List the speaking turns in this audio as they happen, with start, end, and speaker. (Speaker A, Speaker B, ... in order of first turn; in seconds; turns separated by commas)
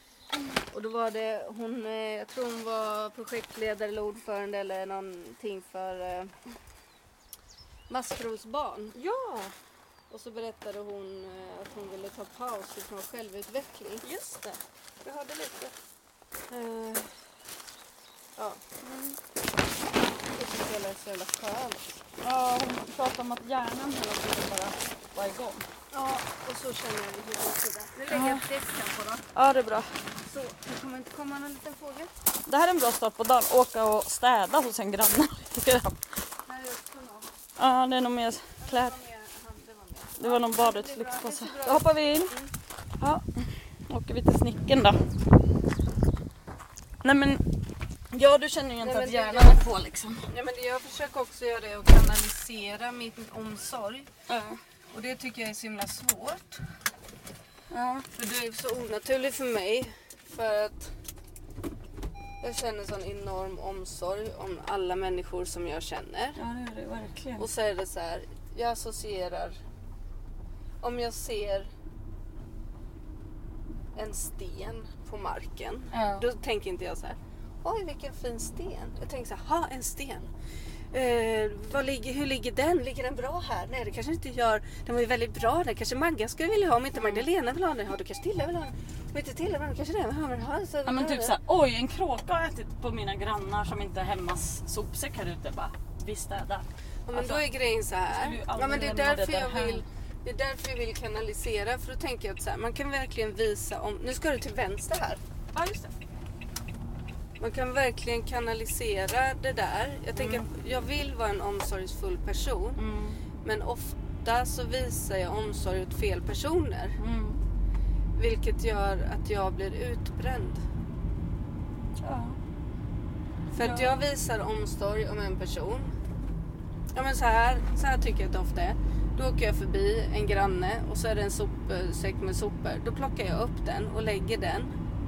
Speaker A: 0.7-6.3, Speaker A: 7.9-8.9, Speaker B: 8.9-9.5, Speaker A: 10.1-14.1, Speaker B: 14.0-14.6, Speaker A: 15.0-15.7, Speaker B: 16.5-17.1, Speaker A: 16.5-17.0, Speaker A: 18.4-18.6, Speaker B: 18.8-19.2, Speaker A: 20.3-22.0, Speaker B: 22.2-25.6, Speaker A: 25.9-29.2, Speaker B: 28.1-28.4, Speaker B: 29.3-29.9, Speaker A: 30.2-32.1, Speaker B: 32.5-36.0, Speaker A: 36.5-37.3, Speaker B: 37.6-39.0, Speaker A: 38.6-42.5, Speaker B: 40.2-42.3, Speaker B: 43.0-45.0, Speaker B: 47.0-47.4, Speaker B: 48.1-50.3, Speaker A: 48.8-49.6, Speaker A: 50.3-54.1, Speaker B: 54.3-54.6, Speaker A: 54.9-56.6, Speaker B: 57.7-58.1, Speaker A: 58.1-60.9, Speaker A: 62.4-66.4, Speaker B: 66.4-67.5, Speaker A: 67.4-69.6, Speaker A: 70.8-71.7, Speaker A: 73.9-80.3, Speaker B: 75.9-76.2, Speaker A: 80.9-91.3, Speaker B: 86.9-87.2, Speaker B: 90.8-97.4, Speaker A: 97.1-105.2, Speaker B: 98.1-99.8, Speaker B: 105.5-105.9, Speaker A: 107.4-112.8, Speaker B: 110.1-110.5, Speaker B: 112.8-113.2, Speaker A: 113.4-117.0, Speaker B: 117.0-117.4, Speaker A: 118.2-120.6, Speaker B: 122.0-122.4, Speaker A: 123.5-125.9, Speaker B: 123.6-124.0, Speaker A: 126.9-134.7